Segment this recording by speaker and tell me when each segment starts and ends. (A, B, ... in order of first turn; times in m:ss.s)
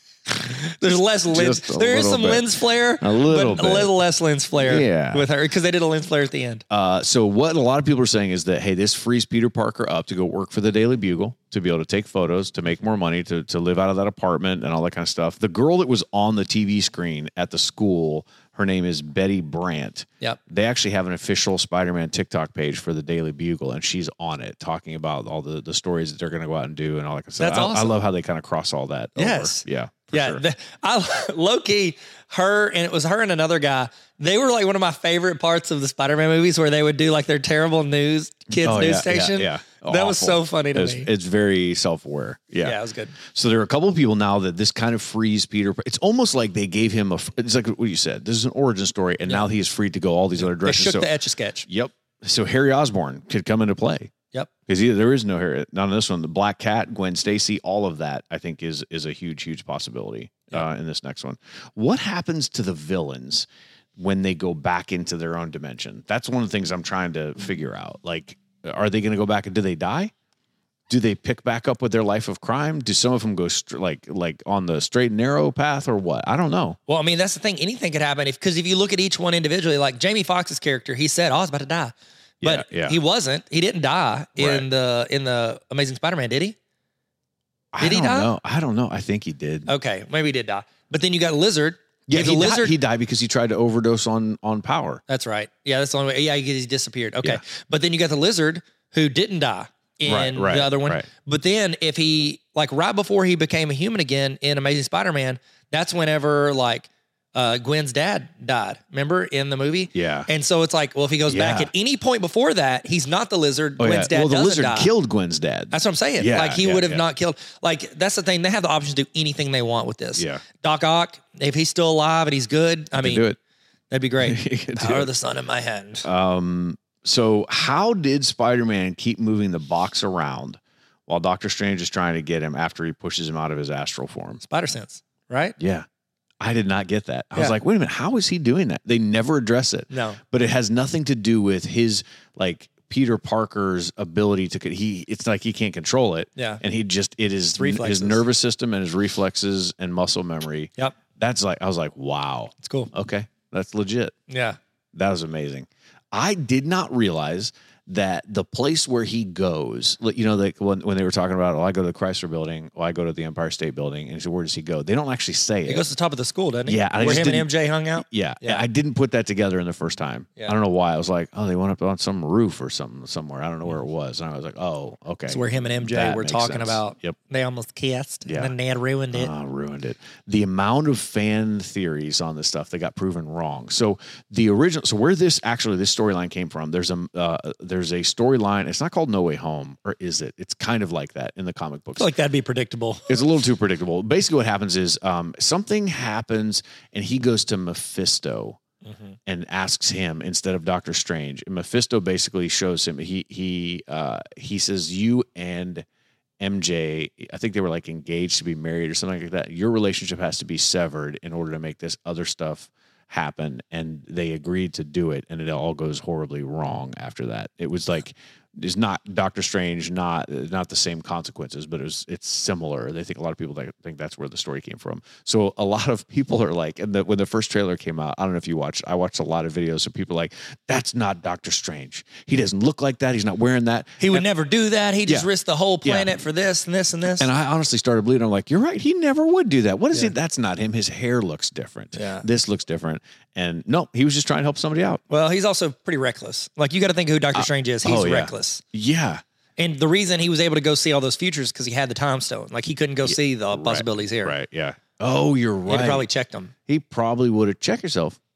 0:00.5-0:06.6 A
0:01.3-0:02.5 B
0:03.0-0:03.9 B
0:04.6-0:05.3 B
0:06.7-0:30.4 B
0:27.4-0:28.0 A
0:29.2-0:41.1 A
0:38.5-0:51.1 B
0:42.6-0:43.2 A
0:50.4-0:51.7 A
0:51.7-0:54.1 B
0:54.7-1:10.1 B
1:10.9-1:16.8 B
1:16.9-1:26.6 A
1:22.4-1:23.0 B
1:24.4-1:24.7 B
1:27.7-1:29.7 B
1:27.8-1:28.3 A
1:29.7-1:32.8 A
1:32.1-1:35.0 B
1:35.1-1:54.9 A
1:40.0-1:41.1 B
1:49.9-1:50.3 B
1:51.3-1:51.7 B
1:53.8-1:57.0 B
1:55.7-2:03.2 A
2:00.2-2:00.4 B
2:03.0-2:03.4 B
2:03.9-2:06.0 A
2:04.2-2:05.1 B
2:06.0-2:14.4 B
2:14.4-2:15.6 A
2:15.6-2:15.9 B
2:16.4-2:34.1 B
2:19.9-2:20.2 A
2:26.4-2:26.6 A
2:27.6-2:28.2 A
2:32.6-2:32.9 A
2:34.3-2:34.6 A
2:34.9-2:45.8 B
2:45.7-2:48.6 A
2:46.7-2:57.2 B
2:55.3-2:59.3 A
2:58.3-2:58.5 B
2:59.1-3:12.1 B
3:12.0-3:13.2 A
3:13.1-3:18.6 B
3:18.8-3:19.2 A
3:19.3-3:25.9 B
3:26.4-3:54.2 B
3:54.0-3:57.3 A
3:55.8-3:56.1 B
3:57.2-4:05.0 B
4:02.0-4:02.3 A
4:05.1-4:08.6 A
4:07.3-4:09.2 B
4:09.6-4:14.3 A
4:13.0-4:16.1 B
4:15.7-4:16.5 A
4:16.7-4:18.2 B